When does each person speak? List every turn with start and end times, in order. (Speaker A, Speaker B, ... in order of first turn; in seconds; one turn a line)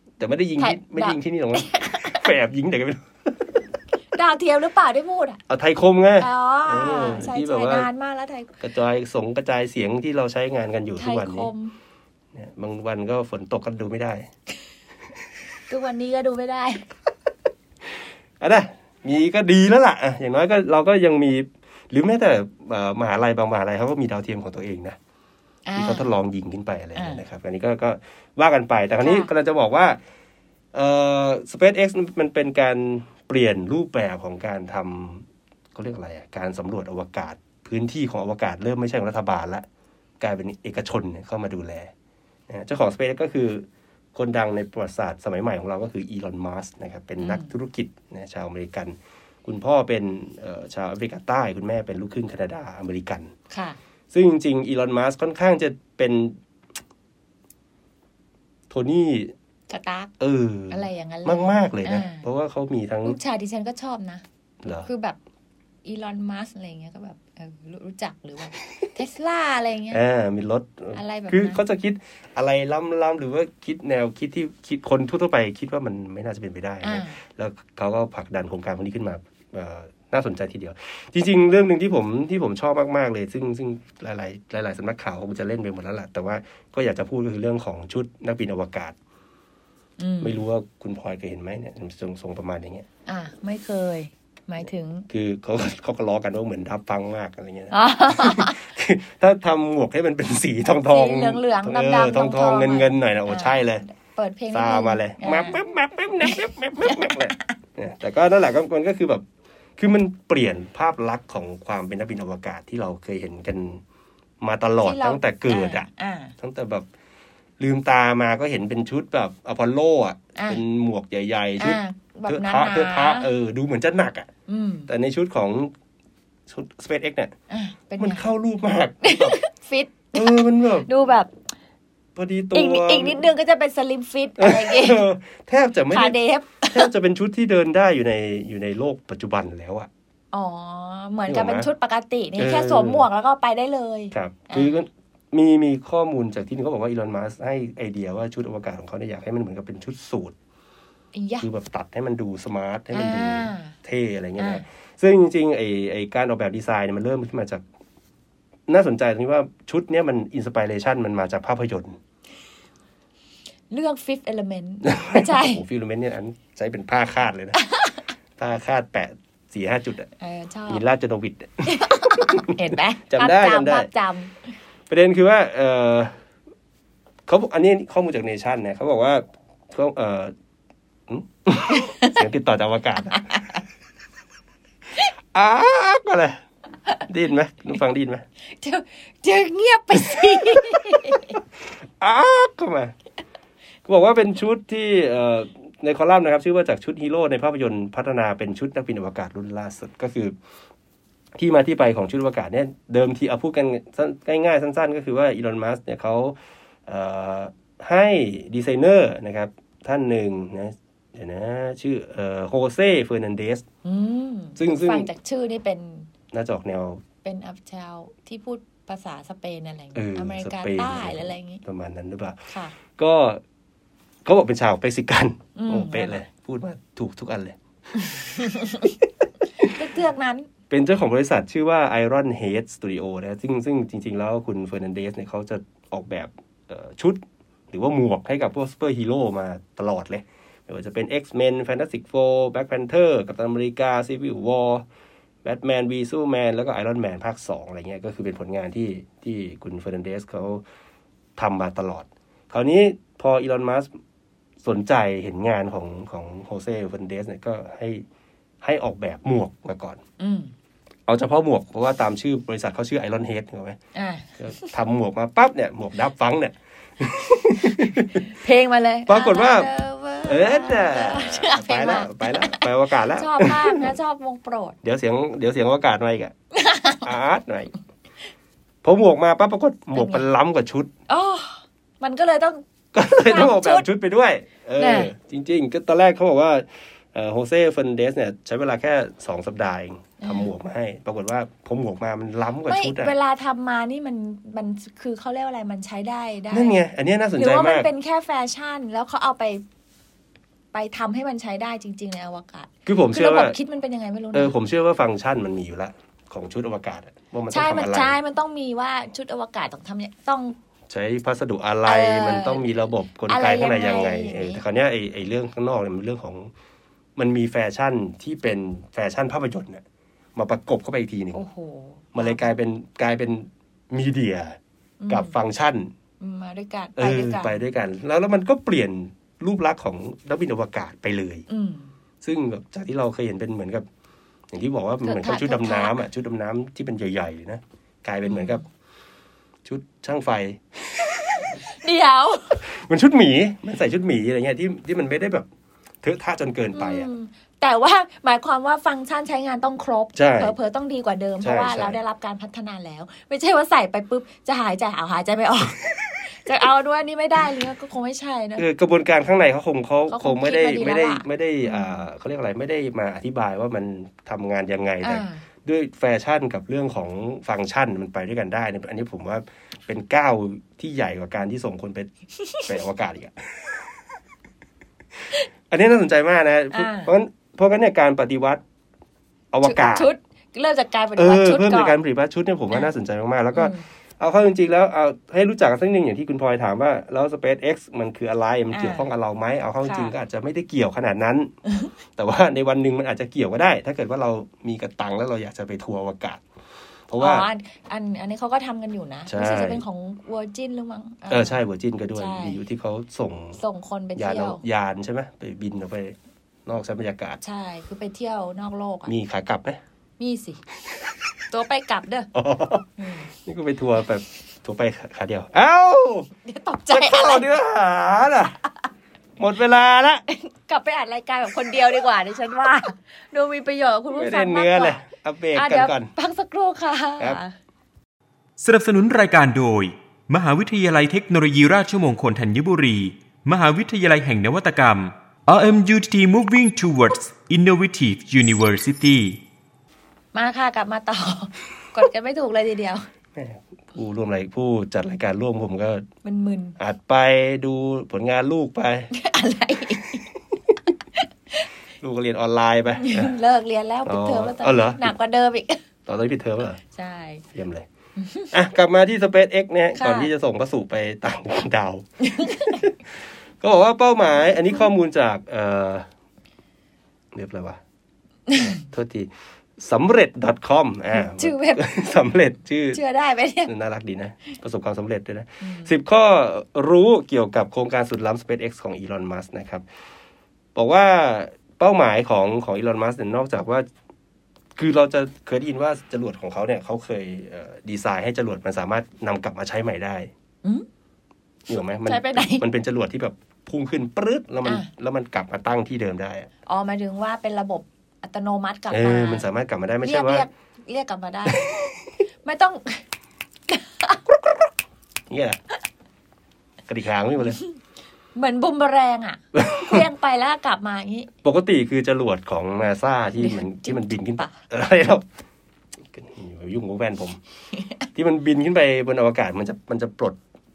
Speaker A: 0.2-3.6
Speaker B: 0.6-2.3
Speaker B: 4.1-5.4
Speaker A: 5.5-7.9
Speaker B: 6.2-8.5
Speaker A: 8.6-11.5
Speaker B: 11.0-11.8
Speaker A: 12.3-14.3
Speaker B: 15.7-16.9
Speaker A: 18.4-25.0
Speaker B: 25.7-26.1
Speaker A: 25.8-30.0
Speaker B: 27.0-27.2
Speaker B: 29.0-29.3
Speaker A: 30.7-39.7
Speaker A: 40.2-41.9
Speaker A: 42.5-53.3
Speaker B: 47.2-47.5
Speaker B: 53.5-53.8
Speaker A: 54.1-56.4
Speaker A: 58.7-59.3
Speaker B: 59.7-60.1
Speaker A: 60.2-63.2
Speaker B: 60.7-62.2
Speaker B: 63.0-64.2
Speaker A: 64.6-64.9
Speaker B: 64.8-65.2
Speaker B: 65.8-70.0
Speaker A: 69.9-89.0
Speaker B: 70.9-71.6
Speaker B: 76.8-77.2
Speaker B: 90.0-90.4
Speaker A: 90.2-92.9
Speaker B: 93.1-95.1
Speaker A: 95.1-103.8
Speaker B: 97.7-98.6
Speaker B: 100.9-105.6
Speaker A: 104.5-109.2
Speaker B: 106.2-107.5
Speaker A: 109.8-113.8
Speaker A: 114.4-116.9
Speaker B: 114.8-116.3
Speaker A: 117.6-124.3
Speaker B: 120.3-120.6
Speaker B: 121.6-123.3
Speaker B: 124.5-124.9
Speaker A: 124.9-125.7
Speaker A: 126.5-127.3
Speaker B: 127.5-128.2
Speaker A: 128.0-129.4
Speaker B: 129.0-131.3
Speaker A: 130.1-130.9
Speaker A: 132.2-133.2
Speaker B: 132.5-135.1
Speaker A: 134.4-139.9
Speaker B: 135.9-136.9
Speaker B: 140.3-144.8
Speaker A: 141.3-141.7
Speaker A: 142.4-143.1
Speaker A: 144.1-150.3
Speaker B: 151.1-151.5
Speaker A: 151.4-157.6
Speaker B: 152.9-153.7
Speaker B: 154.4-154.6
Speaker A: 158.7-162.0
Speaker B: 163.7-165.6
Speaker A: 164.9-167.6
Speaker B: 167.6-168.0
Speaker A: 168.4-170.1
Speaker B: 170.2-170.8
Speaker A: 170.7-173.9
Speaker B: 171.7-174.4
Speaker A: 174.9-176.2
Speaker A: 177.3-180.3
Speaker A: 181.1-183.2
Speaker B: 181.7-182.2
Speaker A: 185.3-186.4
Speaker A: 187.1-188.2
Speaker B: 188.5-191.4
Speaker A: 190.0-191.2
Speaker A: 192.0-192.9
Speaker A: 193.9-200.3
Speaker A: 201.4-213.6
Speaker B: 213.8-216.1
Speaker A: 214.6-215.1
Speaker A: 216.3-217.0
Speaker B: 217.2-221.6
Speaker A: 219.9-223.4
Speaker A: 224.2-229.0
Speaker B: 225.6-226.2
Speaker B: 228.2-228.8
Speaker B: 229.6-230.5
Speaker A: 230.7-244.9
Speaker A: 245.4-250.6
Speaker A: 251.4-253.9
Speaker A: 254.6-258.1
Speaker A: 258.6-260.0
Speaker B: 260.2-260.5
Speaker A: 261.1-263.8
Speaker B: 263.9-264.7
Speaker A: 264.4-268.2
Speaker B: 268.2-274.8
Speaker A: 269.1-269.7
Speaker A: 270.3-273.9
Speaker A: 274.8-276.3
Speaker B: 276.5-277.1
Speaker A: 277.0-277.7
Speaker A: 278.8-280.9
Speaker B: 279.9-280.3
Speaker B: 281.1-283.9
Speaker A: 282.9-293.1
Speaker B: 284.8-285.1
Speaker B: 290.2-290.5
Speaker B: 292.7-296.8
Speaker A: 296.5-297.9
Speaker B: 297.4-299.6
Speaker B: 300.7-304.6
Speaker A: 302.9-303.6
Speaker A: 304.3-308.2
Speaker B: 307.5-310.6
Speaker A: 310.9-316.5
Speaker B: 311.9-312.7
Speaker B: 313.3-314.6
Speaker A: 317.2-319.8
Speaker A: 320.4-321.4
Speaker B: 321.3-322.5
Speaker A: 322.1-324.6
Speaker B: 325.0-325.4
Speaker A: 325.1-325.9
Speaker B: 326.2-327.6
Speaker A: 327.0-331.4
Speaker B: 331.5-331.9
Speaker A: 332.2-333.9
Speaker A: 334.5-338.6
Speaker B: 335.0-336.0
Speaker B: 338.2-338.6
Speaker A: 339.6-341.6
Speaker B: 341.4-342.6
Speaker A: 342.6-345.5
Speaker A: 346.0-347.1
Speaker B: 346.7-358.7
Speaker A: 350.1-350.6
Speaker A: 351.4-352.0
Speaker A: 358.6-372.1
Speaker B: 360.1-362.0
Speaker B: 365.0-365.4
Speaker B: 372.4-372.7
Speaker A: 372.6-373.8
Speaker A: 375.7-378.6
Speaker B: 376.7-377.1
Speaker A: 379.5-380.1
Speaker B: 379.6-382.0
Speaker A: 381.2-391.5
Speaker B: 383.6-383.8
Speaker B: 388.7-389.1
Speaker B: 389.8-390.1
Speaker A: 392.1-396.4
Speaker A: 397.1-397.5
Speaker B: 397.2-401.6
Speaker A: 399.3-399.8
Speaker A: 401.3-403.6
Speaker B: 402.2-402.6
Speaker B: 403.6-404.6
Speaker A: 404.2-407.4
Speaker B: 407.4-409.1
Speaker A: 409.1-409.8
Speaker B: 410.2-410.6
Speaker B: 411.5-412.3
Speaker A: 412.3-416.3
Speaker B: 413.0-413.3
Speaker B: 416.4-417.5
Speaker A: 416.9-418.6
Speaker A: 419.4-420.2
Speaker B: 420.3-425.0
Speaker A: 424.1-426.1
Speaker B: 425.6-427.5
Speaker C: 428.6-439.4
Speaker B: 440.3-443.1
Speaker A: 443.4-446.1
Speaker B: 446.2-446.8
Speaker A: 446.8-449.1
Speaker B: 449.1-450.2
Speaker A: 452.0-453.4
Speaker B: 453.0-455.8
Speaker A: 454.1-455.1
Speaker A: 456.1-456.8
Speaker B: 456.9-457.4
Speaker A: 457.5-457.9
Speaker B: 458.2-458.5
Speaker A: 458.5-466.1
Speaker B: 460.0-460.3
Speaker B: 462.2-462.8
Speaker A: 467.3-467.8
Speaker B: 468.5-468.8
Speaker A: 468.6-473.0
Speaker B: 471.1-471.9
Speaker B: 472.9-473.7
Speaker A: 473.7-479.9
Speaker B: 475.6-475.9
Speaker A: 480.8-483.9
Speaker A: 484.8-490.3
Speaker A: 491.7-496.5
Speaker B: 492.1-492.6
Speaker B: 496.7-499.5
Speaker A: 498.9-500.5
Speaker B: 500.0-501.7
Speaker A: 501.5-501.7
Speaker B: 502.4-503.0
Speaker B: 503.7-504.2
Speaker A: 505.3-505.6
Speaker A: 506.9-507.6
Speaker B: 508.4-511.3
Speaker A: 509.6-510.1
Speaker A: 511.4-515.2
Speaker B: 513.4-514.6
Speaker A: 516.1-517.4
Speaker A: 518.1-520.4